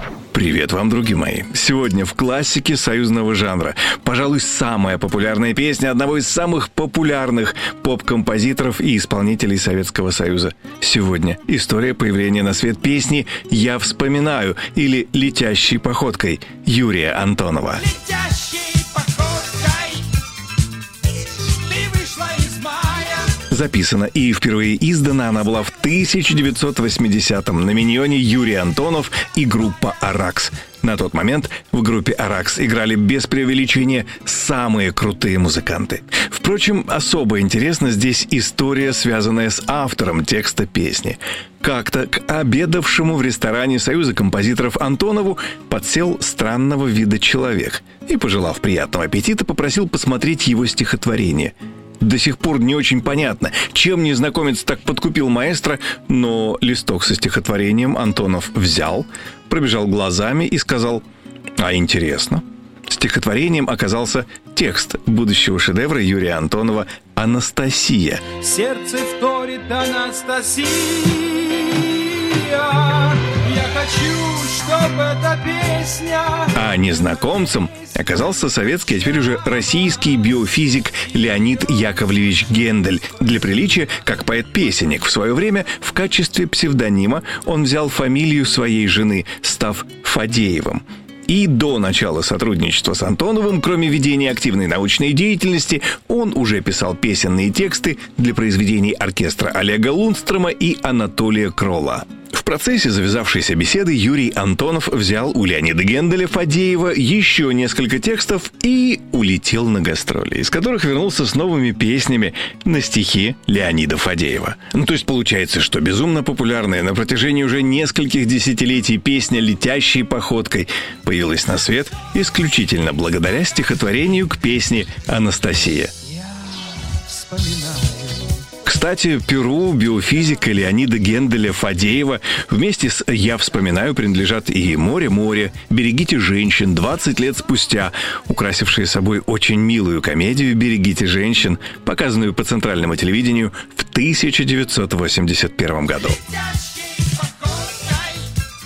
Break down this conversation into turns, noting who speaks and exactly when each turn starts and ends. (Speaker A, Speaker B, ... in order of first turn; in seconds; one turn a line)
Speaker A: 0.3-18.1
Speaker B: 22.6-22.9
Speaker A: 23.2-61.0
Speaker A: 61.6-68.3
Speaker B: 68.4-76.5
Speaker A: 76.5-125.9
Speaker B: 127.0-128.1
Speaker A: 128.6-146.4